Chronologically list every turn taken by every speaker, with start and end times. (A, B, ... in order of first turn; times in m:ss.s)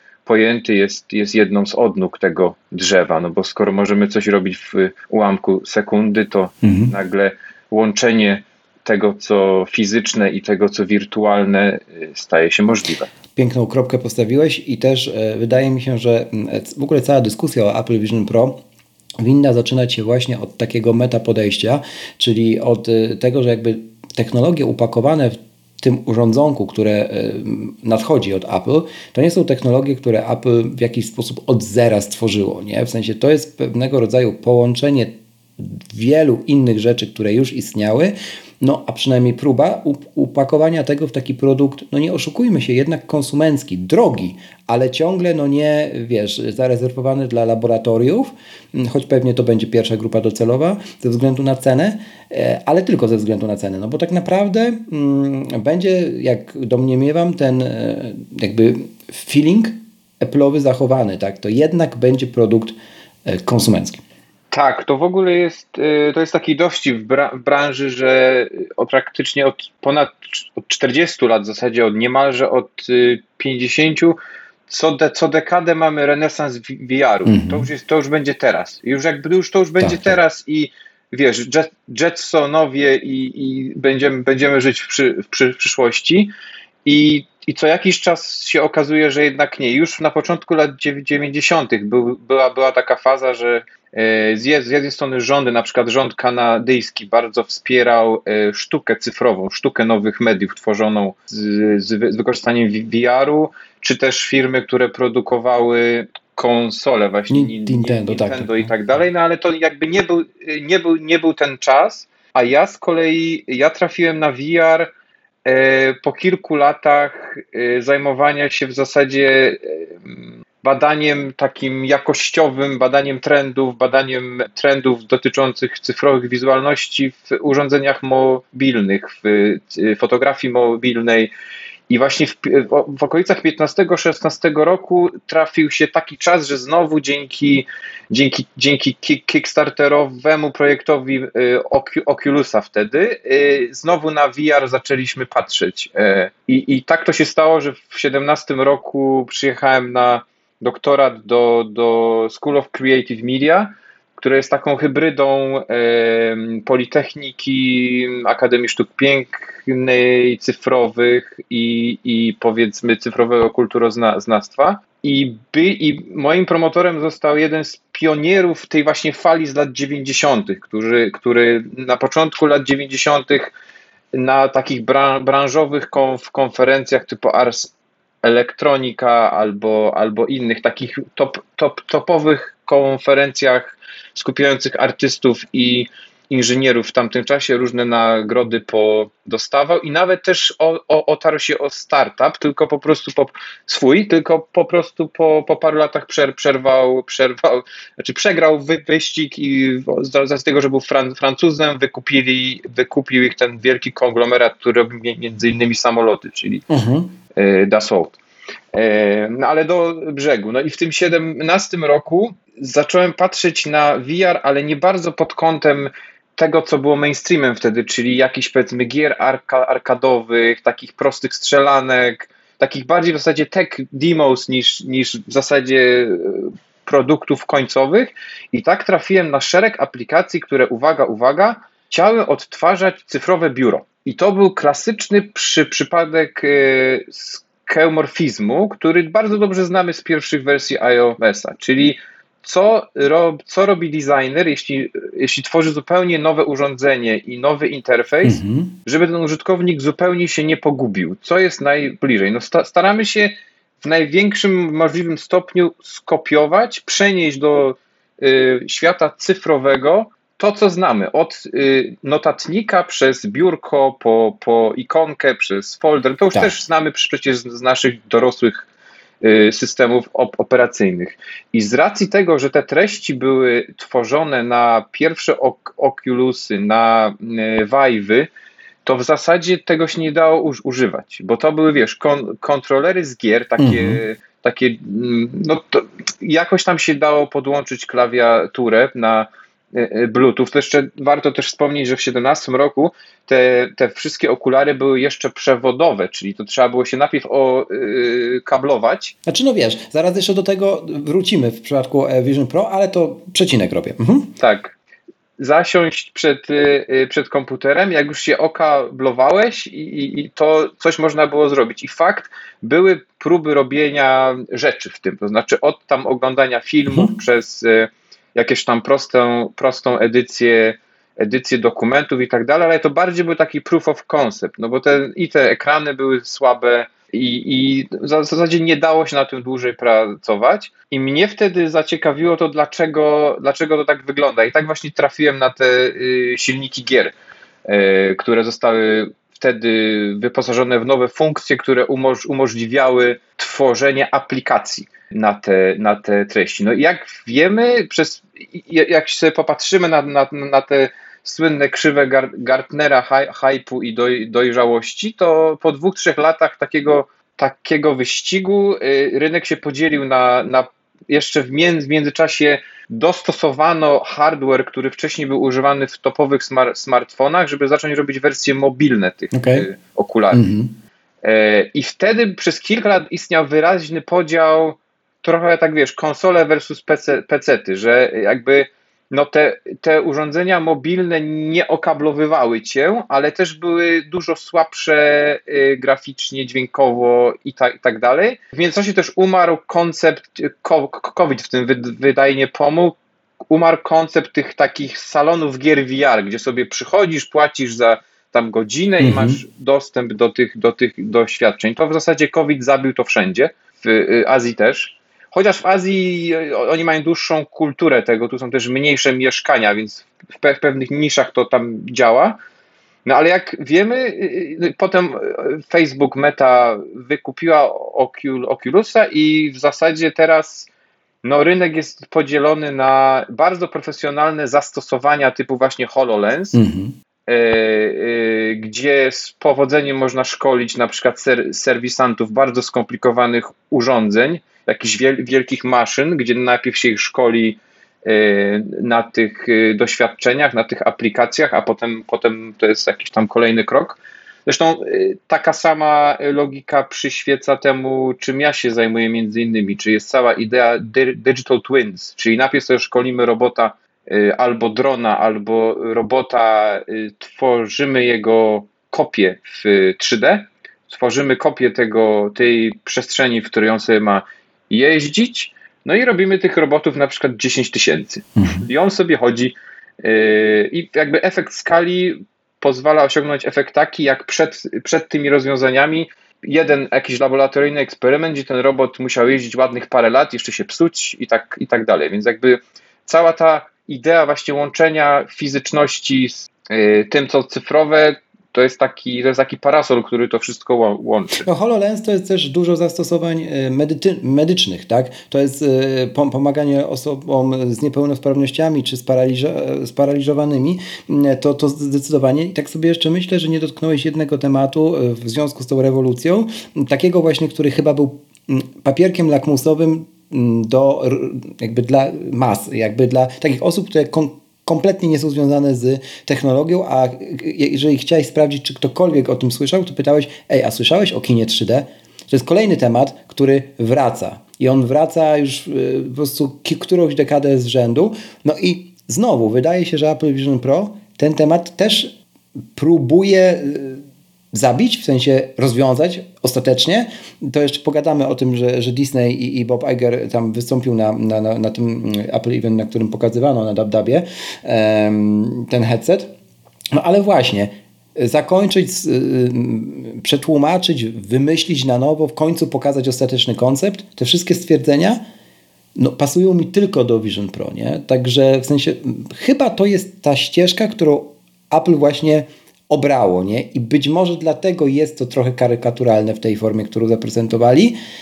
0:00.2-0:13.1 A
0:06.6-0:06.9 B
0:13.4-0:18.6 B
0:19.2-1:04.0 B
1:04.5-1:14.2 A
1:14.7-1:26.3 A
1:17.2-1:17.7 B
1:19.8-1:20.2 B
1:26.8-1:54.9 A
1:47.3-1:48.7 B
1:55.4-2:11.3 A
2:11.9-2:53.5 A
2:54.1-3:26.6 A
3:26.7-3:27.2 B
3:27.3-3:28.2 A
3:28.7-4:28.7 A
4:08.2-4:08.8 B
4:29.2-4:38.3 A
4:38.8-4:59.1 A
4:43.6-4:44.0 B
4:59.2-5:04.3 B
5:04.4-5:04.8 A
5:05.4-5:37.1 A
5:37.6-6:10.4 A
6:09.3-6:09.7 B
6:10.3-6:10.7 B
6:11.2-6:33.0 A
6:33.5-6:52.4 A
6:39.0-6:39.4 B
6:53.0-7:00.7 A
7:01.2-7:06.6 A
7:06.5-7:06.9 B
7:07.3-8:11.5 A
7:48.4-7:48.6 B
8:11.4-8:52.1 B
8:52.7-9:06.3 B
9:06.9-9:15.2 B
9:16.0-9:27.9 B